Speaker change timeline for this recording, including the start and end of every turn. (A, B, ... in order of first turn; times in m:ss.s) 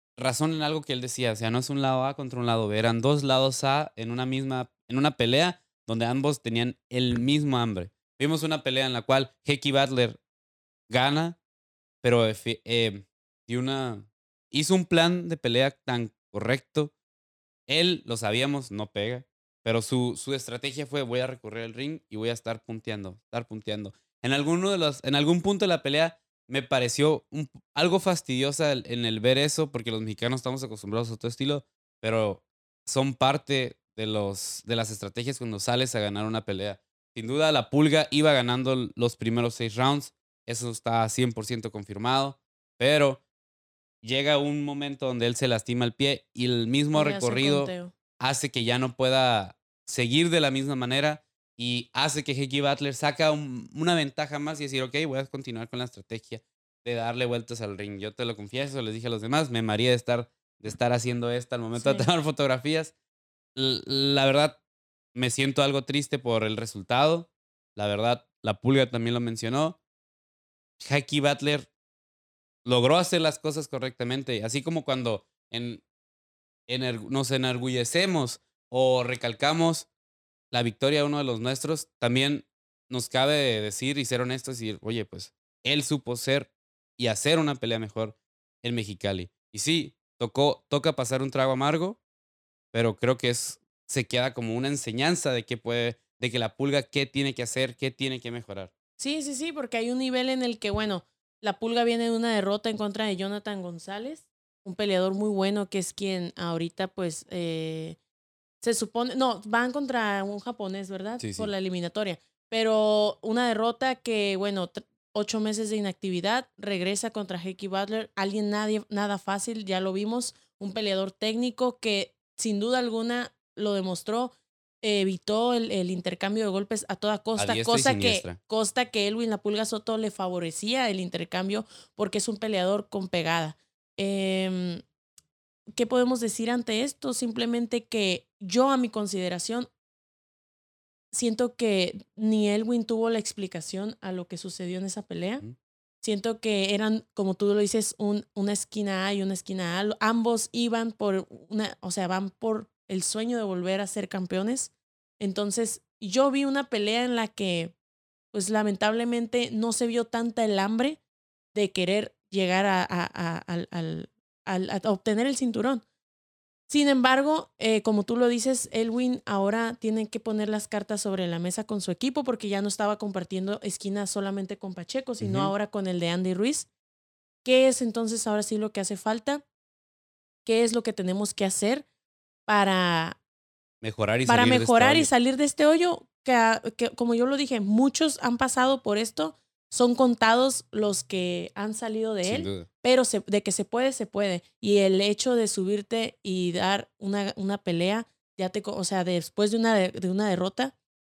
0:00.2-0:10.2 A
0:10.9-0:11.4 A
0:12.0-0:16.9 A
0:17.7-0:43.2 A
0:44.0-1:02.9 A
0:46.9-0:47.9 B
1:01.8-1:02.1 B
1:03.5-1:04.6 A
1:05.1-1:09.8 A
1:10.8-1:11.7 A
1:12.6-1:15.8 A
1:16.7-1:19.9 A
1:20.5-1:32.0 A
1:32.7-1:38.7 A
1:39.0-1:48.0 B
1:48.6-2:14.8 B
1:51.2-1:51.5 A
2:07.4-2:08.4 A
2:15.8-2:19.7 B
2:21.1-2:25.4 B
2:26.0-2:37.7 B
2:38.3-2:41.0 B
2:41.5-2:45.8 B
2:46.7-2:56.7 B
2:55.2-2:55.5 A
2:57.4-2:59.4 B
3:00.4-3:01.8 B
3:02.4-3:03.2 B
3:03.8-3:05.1 A
3:04.2-3:20.7 B
3:12.2-3:12.7 A